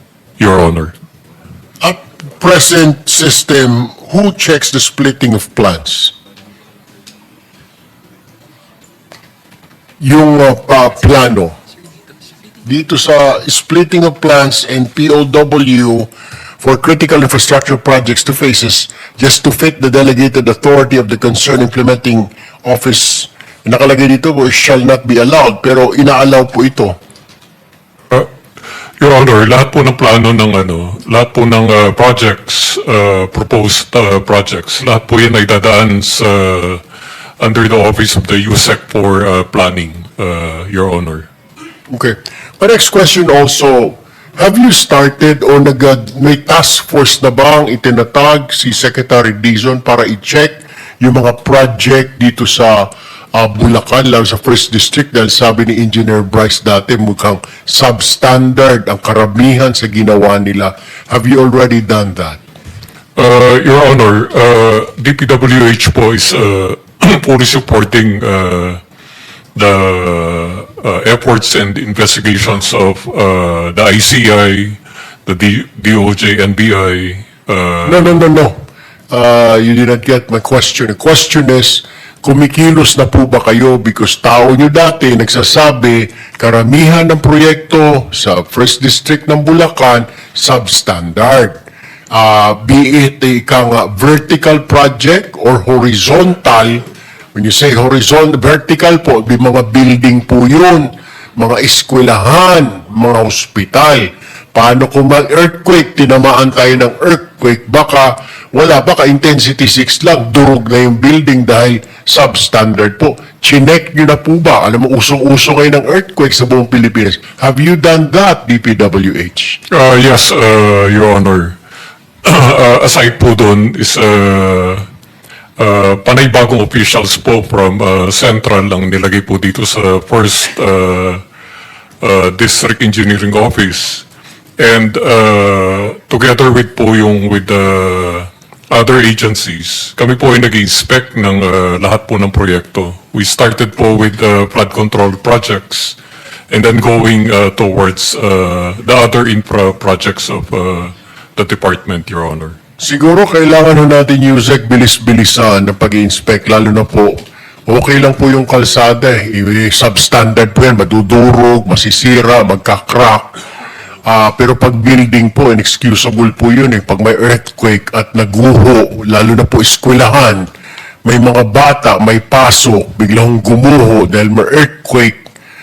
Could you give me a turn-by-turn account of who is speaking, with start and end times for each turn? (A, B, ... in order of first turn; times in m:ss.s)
0:00.4-0:00.9 A
0:01.8-0:06.1 B
0:10.0-0:11.6 B
0:12.6-0:16.1 B
0:16.6-0:27.0 B
0:29.0-0:36.8 A
0:37.4-0:41.3 A
0:41.9-1:02.4 B
1:03.2-1:08.8 A
1:09.6-1:18.1 A
1:17.8-1:18.6 B
1:19.1-1:31.6 B
1:32.1-1:59.6 B
1:59.7-2:01.6 A
2:02.2-2:04.8 A
2:05.6-2:11.2 A
2:12.0-2:14.0 A
2:14.6-2:26.0 A
2:26.5-2:32.6 A
2:32.8-2:43.4 B
2:44.1-2:50.5 B
2:51.0-2:55.2 B